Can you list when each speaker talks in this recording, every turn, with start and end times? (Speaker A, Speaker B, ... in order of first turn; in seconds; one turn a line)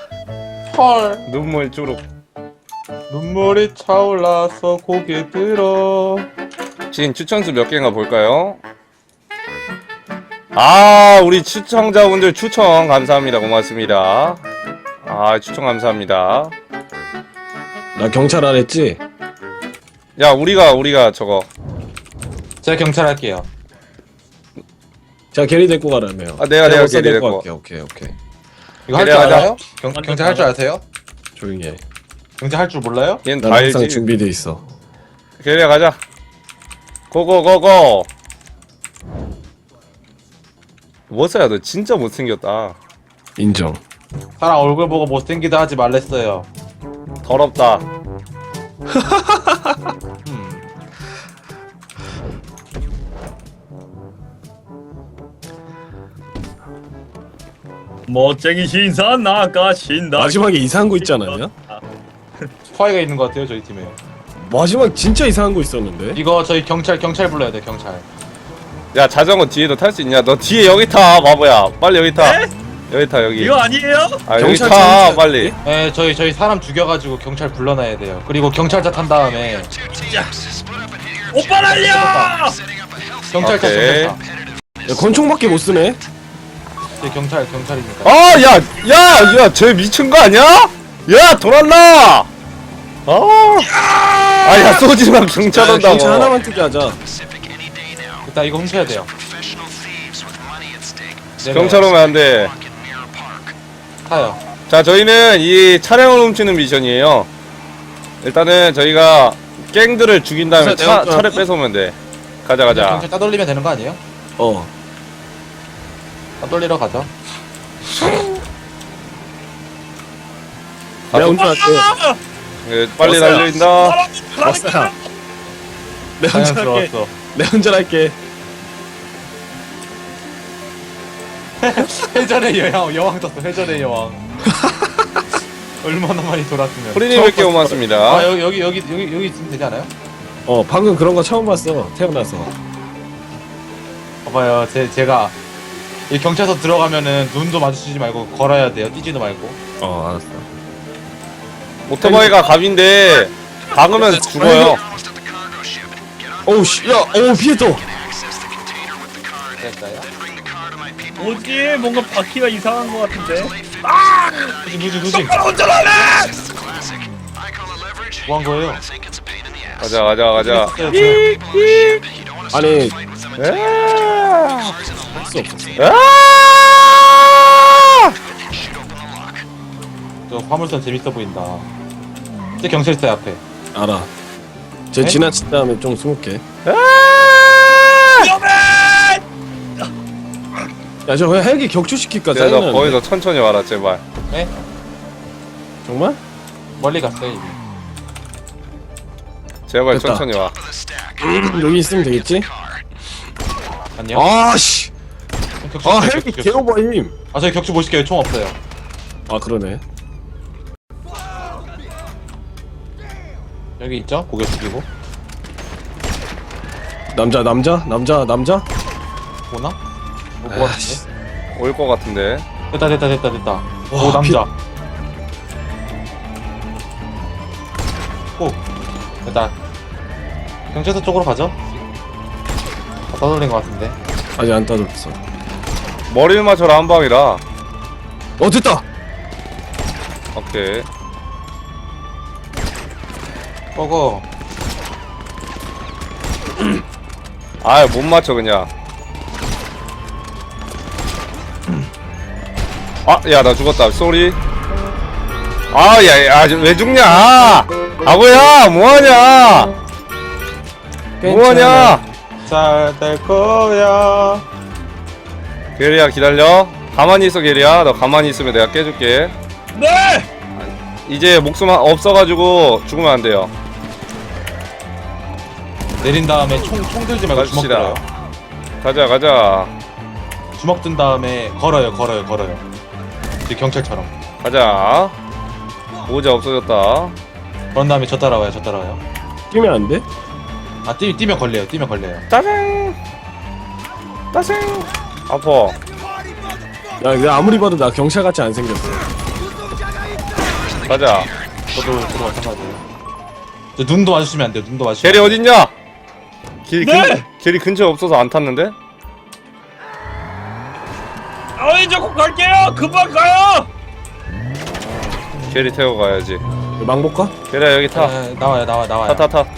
Speaker A: 0.7-1.2
Speaker B: 1.3-2.0
Speaker A: 3.1-6.3
Speaker B: 6.9-8.6
Speaker B: 10.5-14.4
Speaker B: 15.0-16.5
Speaker C: 17.9-19.0
Speaker B: 20.2-21.5
Speaker A: 22.6-23.5
Speaker C: 25.3-28.1
Speaker B: 26.4-27.4
Speaker A: 28.9-30.8
Speaker B: 28.9-29.5
Speaker D: 29.9-30.5
Speaker C: 31.4-31.8
Speaker A: 32.4-33.2
Speaker B: 33.2-34.1
Speaker C: 33.4-34.6
Speaker B: 35.4-36.0
Speaker B: 37.1-38.1
Speaker B: 41.1-42.8
Speaker C: 43.4-43.8
Speaker A: 44.4-46.5
Speaker B: 47.2-47.8
Speaker C: 48.9-49.9
Speaker A: 50.2-50.6
Speaker D: 58.1-60.4
Speaker C: 60.1-61.5
Speaker D: 61.0-61.8
Speaker A: 62.7-64.0
Speaker C: 64.4-66.2
Speaker A: 66.1-68.1
Speaker B: 68.9-73.6
Speaker D: 72.2-72.5
Speaker D: 73.4-74.2
Speaker B: 74.3-75.5
Speaker C: 74.4-75.5
Speaker A: 75.6-79.7
Speaker D: 80.0-80.4
Speaker D: 81.3-82.6
Speaker A: 82.1-82.3
Speaker A: 83.3-84.2
Speaker B: 83.4-84.2
Speaker C: 84.8-86.0
Speaker A: 87.0-88.4
Speaker B: 88.0-92.3
Speaker B: 93.0-93.8
Speaker B: 94.4-96.3
Speaker C: 95.5-97.0
Speaker A: 98.2-99.1
Speaker A: 101.4-102.0
Speaker B: 101.5-102.5
Speaker A: 104.0-104.4
Speaker B: 104.7-107.3
Speaker B: 108.2-113.0
Speaker C: 110.6-111.4
Speaker A: 112.7-114.0
Speaker C: 114.4-114.7
Speaker A: 116.4-117.1
Speaker B: 121.1-121.4
Speaker C: 121.1-121.9
Speaker D: 121.3-122.2
Speaker B: 122.6-124.0
Speaker D: 123.0-125.0
Speaker C: 124.4-124.9
Speaker C: 126.2-128.2
Speaker A: 126.3-127.1
Speaker A: 131.6-134.2
Speaker C: 134.5-135.1
Speaker A: 135.8-137.3
Speaker B: 136.9-138.3
Speaker C: 137.1-137.8
Speaker A: 138.1-139.9
Speaker C: 140.4-142.5
Speaker A: 144.2-145.3
Speaker A: 146.1-149.6
Speaker C: 149.8-150.5
Speaker B: 151.9-154.8
Speaker C: 152.0-152.4
Speaker C: 154.2-154.8
Speaker C: 156.4-157.9
Speaker A: 159.6-160.1
Speaker D: 161.1-166.5
Speaker A: 164.6-165.4
Speaker A: 168.2-168.8
Speaker B: 169.8-172.0
Speaker A: 170.4-171.2
Speaker C: 172.5-172.9
Speaker B: 173.4-174.8
Speaker C: 175.1-175.8
Speaker B: 175.8-178.2
Speaker A: 180.3-181.7
Speaker A: 182.6-183.4
Speaker C: 183.7-184.1
Speaker C: 184.9-186.4
Speaker B: 186.6-188.3
Speaker D: 188.2-189.2
Speaker C: 191.1-193.0
Speaker B: 192.3-194.0
Speaker C: 195.8-196.2
Speaker A: 196.8-197.6
Speaker B: 199.7-200.6
Speaker C: 199.9-200.3
Speaker C: 201.2-202.5
Speaker A: 204.0-204.2
Speaker C: 204.1-204.9
Speaker A: 205.6-206.7
Speaker C: 205.8-207.1
Speaker A: 207.3-208.6
Speaker C: 209.3-209.8
Speaker A: 213.8-214.9
Speaker C: 217.1-218.7
Speaker A: 219.5-219.8
Speaker A: 220.4-221.0
Speaker C: 220.5-221.0
Speaker B: 221.5-222.4
Speaker A: 222.7-224.5
Speaker C: 223.9-224.4
Speaker A: 228.4-228.6
Speaker A: 229.2-229.5
Speaker A: 230.7-231.6
Speaker A: 233.1-233.9
Speaker C: 234.3-235.2
Speaker B: 236.1-237.4
Speaker C: 238.4-238.8
Speaker B: 240.3-240.9
Speaker A: 243.7-244.2
Speaker B: 247.6-248.7
Speaker B: 253.0-254.4
Speaker B: 255.7-259.7
Speaker C: 261.2-262.0
Speaker B: 261.2-262.0
Speaker A: 262.4-264.4
Speaker B: 265.8-269.3
Speaker D: 269.7-270.3
Speaker B: 270.6-273.5
Speaker A: 276.0-278.0
Speaker B: 277.3-278.0
Speaker B: 278.8-279.7
Speaker A: 280.5-282.6
Speaker A: 283.4-284.1
Speaker B: 284.4-285.1
Speaker B: 286.1-287.1
Speaker A: 287.7-289.0
Speaker C: 289.5-290.1
Speaker A: 290.8-292.2
Speaker B: 292.3-293.0
Speaker B: 294.3-295.8
Speaker C: 297.0-299.0
Speaker B: 300.9-301.3
Speaker A: 301.7-302.8
Speaker A: 303.8-305.4
Speaker B: 305.0-305.7
Speaker B: 306.6-308.7
Speaker D: 306.8-307.2
Speaker D: 311.6-313.7
Speaker B: 315.3-316.4
Speaker C: 316.8-317.3
Speaker B: 317.5-318.1
Speaker A: 317.9-319.3
Speaker B: 319.1-319.5